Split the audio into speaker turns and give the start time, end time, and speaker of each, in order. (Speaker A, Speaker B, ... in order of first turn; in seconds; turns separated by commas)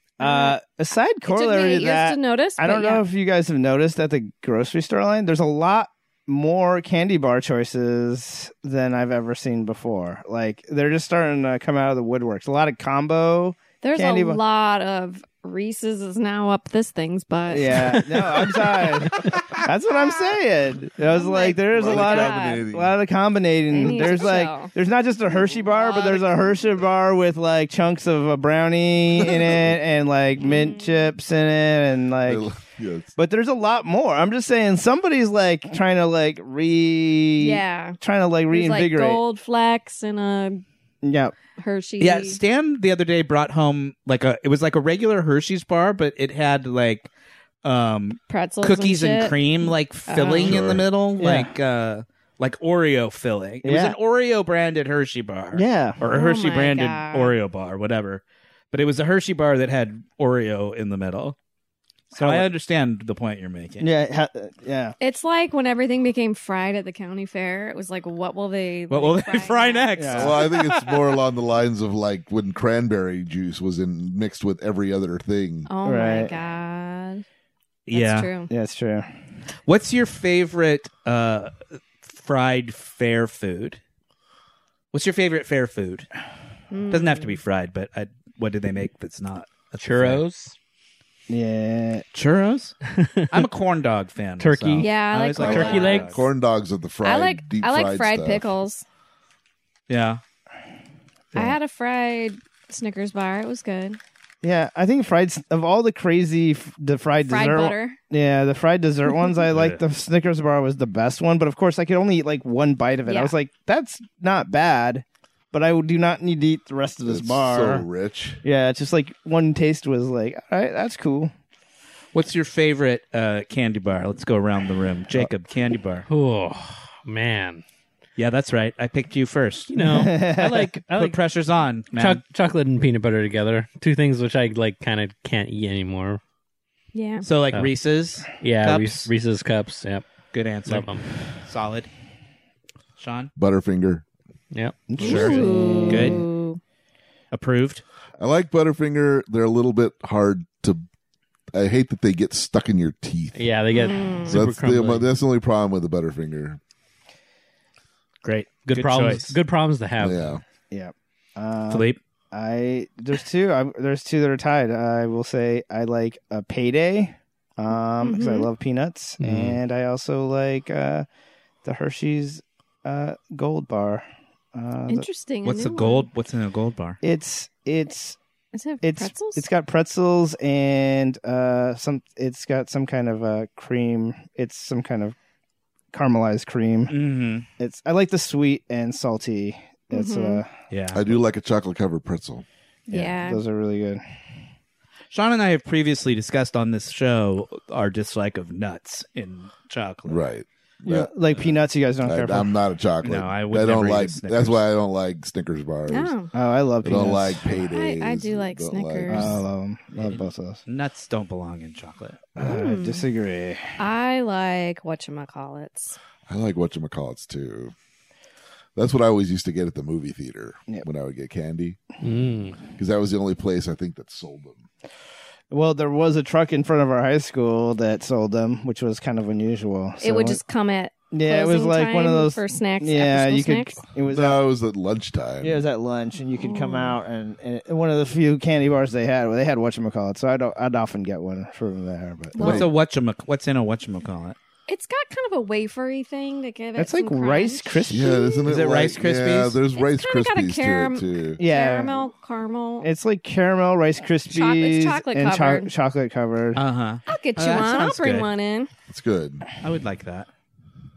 Speaker A: 0.2-0.6, Speaker B: 0.2-14.4, Speaker A: 1.3-3.0, Speaker A: 13.8-18.0, Speaker B: 17.5-32.5, Speaker A: 21.1-22.6, Speaker C: 21.7-22.9, Speaker A: 23.7-24.7, Speaker A: 25.5-26.6, Speaker A: 30.4-31.1, Speaker C: 32.2-33.1, Speaker B: 33.2-39.2, Speaker A: 37.4-38.0, Speaker A: 38.5-40.6, Speaker B: 41.0-41.3, Speaker A: 41.5-42.4, Speaker D: 42.0-47.1, Speaker D: 47.6-61.4, Speaker A: 48.3-50.5, Speaker C: 50.4-50.9, Speaker B: 51.2-51.5, Speaker B: 53.6-54.0, Speaker B: 55.5-56.0, Speaker A: 56.1-57.3, Speaker D: 62.1-63.9, Speaker B: 62.1-62.5, Speaker B: 63.8-65.0, Speaker A: 65.0-69.9, Speaker D: 68.9-71.1, Speaker B: 70.0-70.4, Speaker C: 70.1-75.7, Speaker A: 75.7-77.2, Speaker B: 75.8-76.3, Speaker D: 77.9-78.3, Speaker A: 77.9-78.5, Speaker B: 78.5-79.1, Speaker D: 79.7-83.8, Speaker D: 84.9-86.1, Speaker A: 86.7-87.4, Speaker D: 86.9-90.2, Speaker E: 89.8-90.5, Speaker B: 91.3-92.0, Speaker D: 92.1-92.8, Speaker E: 92.9-93.4, Speaker D: 93.3-96.3, Speaker E: 94.4-96.1, Speaker A: 94.8-96.1, Speaker C: 95.4-98.5, Speaker A: 97.0-98.8, Speaker D: 99.9-100.2, Speaker A: 101.3-104.0, Speaker B: 104.4-117.8, Speaker A: 107.3-108.0, Speaker D: 109.5-109.8, Speaker A: 113.0-113.3, Speaker C: 117.1-118.4, Speaker B: 118.4-121.3, Speaker D: 122.1-126.1, Speaker E: 126.1-127.6, Speaker D: 128.2-129.7, Speaker E: 129.7-131.2, Speaker B: 129.8-130.8, Speaker D: 130.9-132.2, Speaker E: 132.0-136.2, Speaker A: 136.9-137.3, Speaker D: 137.2-139.1, Speaker E: 138.3-140.0, Speaker D: 140.3-141.9, Speaker E: 140.7-141.0, Speaker D: 143.0-143.3, Speaker C: 143.4-144.1, Speaker E: 144.5-146.1, Speaker B: 144.9-146.2, Speaker D: 145.0-146.2, Speaker A: 145.2-146.6, Speaker D: 147.3-147.8, Speaker C: 148.2-150.8, Speaker C: 151.5-153.5, Speaker E: 153.3-155.1, Speaker A: 153.7-154.4, Speaker C: 154.3-156.6, Speaker D: 158.2-159.3, Speaker E: 158.7-160.4, Speaker C: 160.0-160.4, Speaker B: 160.7-171.1, Speaker D: 161.7-162.0, Speaker A: 168.0-168.5, Speaker B: 171.6-175.1, Speaker A: 174.9-176.1, Speaker D: 175.4-177.0, Speaker B: 177.0-178.2, Speaker A: 178.5-179.5, Speaker B: 178.8-185.2, Speaker B: 185.9-186.9, Speaker D: 186.9-187.5, Speaker B: 187.6-190.5, Speaker A: 189.9-190.4, Speaker D: 190.7-191.1, Speaker C: 190.9-192.4, Speaker A: 192.9-193.4, Speaker B: 192.9-194.0, Speaker D: 195.1-200.2, Speaker C: 200.1-201.1, Speaker B: 200.8-202.5, Speaker C: 202.0-206.1, Speaker D: 203.0-204.6, Speaker A: 205.9-206.3, Speaker B: 206.3-207.6, Speaker C: 206.8-209.4, Speaker A: 207.7-209.4, Speaker B: 209.1-210.6, Speaker D: 210.0-212.2, Speaker B: 212.4-213.7, Speaker A: 212.4-213.1, Speaker A: 213.8-216.0, Speaker C: 216.3-217.7, Speaker C: 218.8-221.8, Speaker E: 222.0-222.6, Speaker C: 222.8-224.6, Speaker B: 225.5-230.4, Speaker A: 230.0-233.8, Speaker B: 231.1-234.4, Speaker C: 234.1-235.6, Speaker B: 235.4-242.7, Speaker A: 236.4-237.0, Speaker C: 242.3-242.7, Speaker A: 242.3-242.7, Speaker D: 242.4-244.4, Speaker A: 244.7-248.5, Speaker B: 246.8-248.3, Speaker C: 247.9-251.4, Speaker D: 248.5-249.6, Speaker A: 249.8-252.9, Speaker B: 251.4-252.0, Speaker B: 252.8-256.6, Speaker A: 254.0-255.7, Speaker D: 256.5-258.3, Speaker A: 257.1-258.7, Speaker C: 258.9-259.4, Speaker D: 259.6-260.3